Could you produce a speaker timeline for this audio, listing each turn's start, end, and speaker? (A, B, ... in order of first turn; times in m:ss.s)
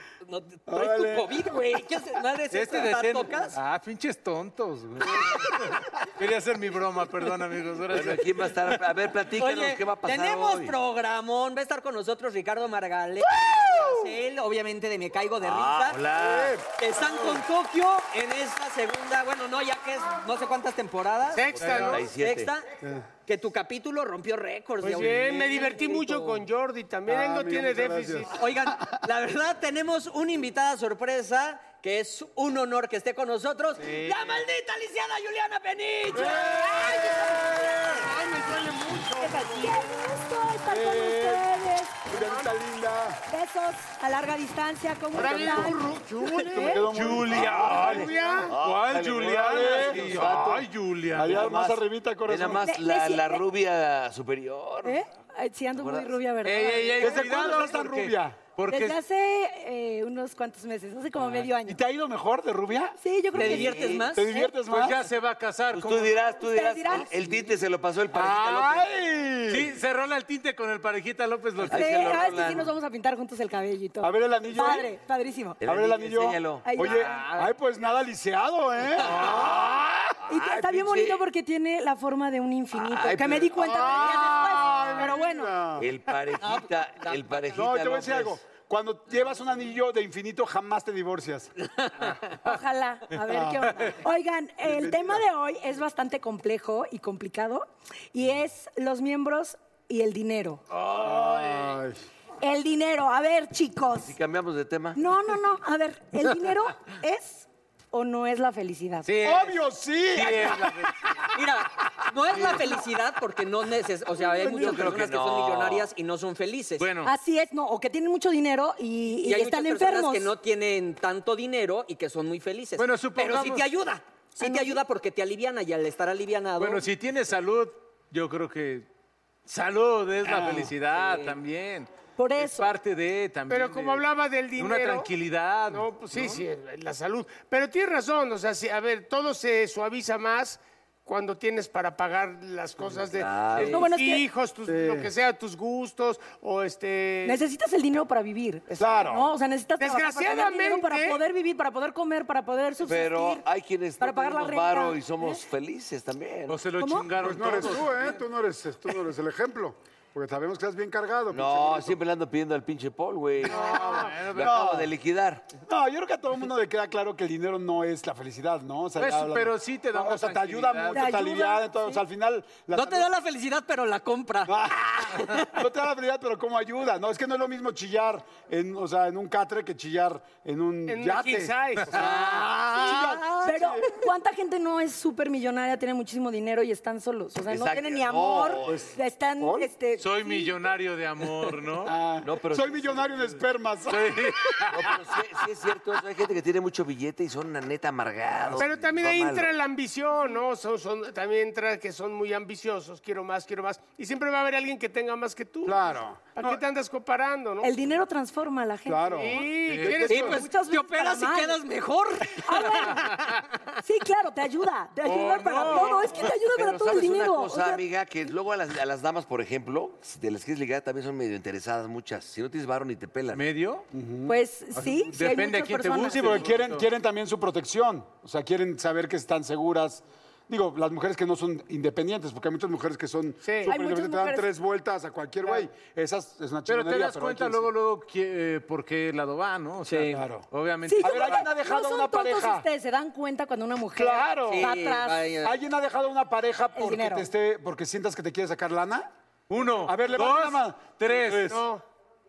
0:00.3-0:03.6 A
0:00.7-0:01.5 B
0:02.5-0:08.7 C
0:07.9-0:10.7 D
0:09.4-0:16.0 A
0:15.4-0:16.6 D
0:16.2-0:16.6 B
0:16.8-0:22.7 A
0:21.3-0:22.1 E
0:21.6-0:22.5 D
0:21.6-0:22.0 C
0:23.3-0:26.4 A
0:24.8-0:25.6 C
0:24.9-0:28.4 E
0:27.1-0:28.3 B
0:28.3-0:36.5 A
0:33.9-0:34.4 C
0:36.1-0:38.0 B
0:36.5-0:37.7 F
0:37.9-0:39.4 E
0:39.2-0:42.1 F
0:40.7-0:41.5 B
0:42.0-0:43.2 B
0:42.1-0:42.5 E
0:43.3-0:46.8 F
0:45.1-0:48.1 B
0:45.2-0:46.6 E
0:46.8-0:51.5 C
0:47.8-0:48.6 E
0:47.9-0:55.0 D
0:49.2-0:50.5 B
0:51.1-0:52.7 B
0:52.6-0:53.4 F
0:54.8-0:57.2 F
0:55.7-0:56.1 D
0:56.4-0:59.0 C
0:57.0-0:58.4 B
0:58.7-1:01.8 F
1:01.6-1:03.0 B
1:03.0-1:04.5 F
1:03.3-1:04.1 D
1:03.4-1:04.3 A
1:04.1-1:05.0 B
1:04.5-1:06.2 C
1:05.7-1:08.9 D
1:06.4-1:07.1 F
1:08.1-1:09.7 B
1:09.5-1:12.4 C
1:11.6-1:12.7 D
1:11.7-1:15.6 F
1:14.0-1:14.9 B
1:15.6-1:16.7 D
1:15.6-1:19.8 B
1:16.6-1:17.2 F
1:16.8-1:17.5 C
1:19.0-1:21.2 D
1:19.0-1:19.8 C
1:20.3-1:25.5 F
1:22.7-1:23.8 D
1:23.5-1:25.9 B
1:25.8-1:28.4 D
1:26.4-1:27.5 A
1:27.5-1:31.5 B
1:32.4-1:40.6 F
1:33.3-1:33.7 B
1:34.6-1:35.2 B
1:40.8-1:41.6 C
1:41.0-1:42.0 B
1:42.4-1:44.1 F
1:44.0-1:45.0 D
1:45.0-1:49.1 F
1:49.0-1:49.6 C
1:49.2-1:51.2 B
1:50.1-1:51.0 C
1:51.3-1:56.9 A
1:54.2-1:54.8 F
1:54.4-1:55.9 D
1:56.8-1:57.1 C
1:57.0-2:00.3 F
1:59.2-2:06.8 A
2:02.8-2:03.6 C
2:04.4-2:04.8 F
2:06.6-2:08.8 C
2:09.5-2:16.4 C
2:10.2-2:10.7 B
2:10.9-2:11.3 A
2:12.2-2:12.7 F
2:13.5-2:15.1 E
2:15.7-2:27.4 E
2:23.1-2:23.9 D
2:23.6-2:24.2 F
2:24.7-2:25.1 B
2:27.2-2:33.4 F
2:28.8-2:29.2 B
2:29.8-2:31.2 E
2:32.8-2:36.6 D
2:34.0-2:35.4 F
2:36.5-2:38.2 C
2:36.8-2:37.1 F
2:37.2-2:42.0 B
2:41.3-2:45.5 D
2:43.5-2:44.9 B
2:43.5-2:44.6 C
2:45.7-2:53.1 B
2:49.0-2:51.1 C
2:50.9-2:52.0 F
2:52.7-2:55.5 A
2:54.4-3:03.9 B
3:00.9-3:01.8 E
3:01.9-3:03.4 A
3:02.8-3:10.5 F
3:07.5-3:08.8 D
3:08.6-3:09.7 B
3:10.0-3:11.9 C
3:11.8-3:14.8 B
3:12.2-3:13.3 D
3:13.9-3:15.0 C
3:14.7-3:19.6 D
3:18.6-3:27.7 E
3:25.6-3:26.4 B
3:27.6-3:29.5 F
3:28.8-3:30.3 B
3:29.2-3:30.3 E
3:29.7-3:30.2 C
3:30.1-3:33.3 A
3:30.1-3:31.6 F
3:32.4-3:33.0 F
3:33.8-3:37.8 F
3:35.0-3:36.1 C
3:36.1-3:43.5 D
3:43.3-3:43.8 C
3:43.9-3:44.3 B
3:44.3-3:46.4 F
3:44.8-3:46.8 C
3:46.1-3:57.7 B
3:53.4-3:53.7 E
3:53.6-3:54.5 F
3:56.7-4:01.5 C
3:59.8-4:00.2 A
4:00.1-4:00.5 B
4:00.9-4:05.2 F
4:01.0-4:02.6 B
4:03.9-4:04.7 B
4:04.5-4:05.6 A
4:05.4-4:09.1 B
4:06.8-4:07.3 F
4:09.5-4:11.6 C
4:09.8-4:11.0 B
4:11.3-4:11.8 E